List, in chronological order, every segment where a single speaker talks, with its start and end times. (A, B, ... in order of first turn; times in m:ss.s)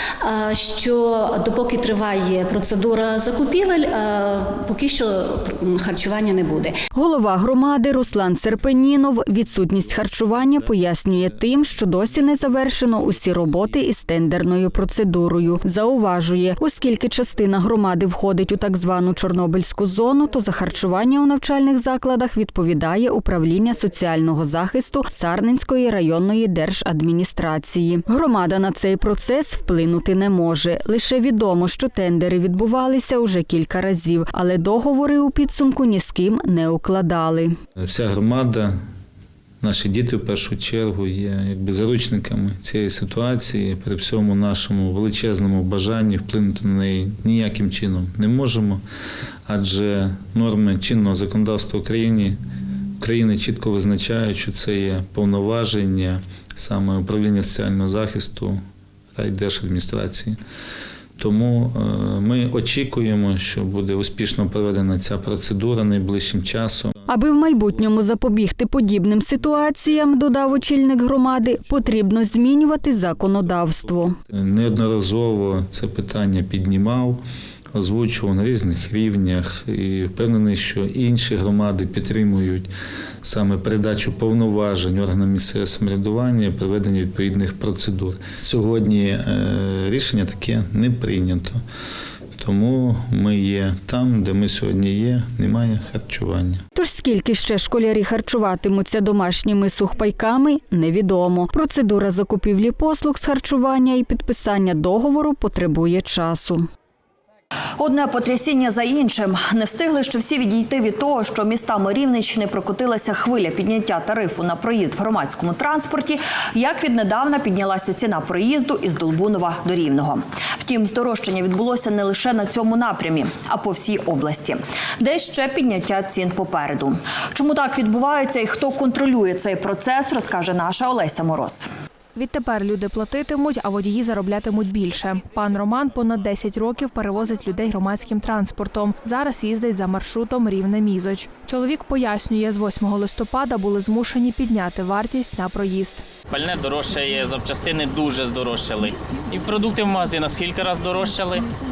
0:00.2-0:06.8 A
0:06.9-0:37.6 B
0:37.8-0:38.8 C
0:39.6-0:48.8 C
0:49.5-0:52.4 C
0:53.0-0:58.6 C
0:59.1-1:00.4 C
1:01.2-1:07.8 C
1:07.1-1:14.2 B
1:09.4-1:10.7 C
1:11.8-1:12.0 C
1:13.1-1:17.2 C
1:17.7-1:22.7 C
1:23.2-1:31.6 C
1:32.4-1:36.6 C
1:36.8-1:46.7 B
1:47.8-2:11.7 D
2:12.2-2:26.1 E
2:26.3-2:31.5 F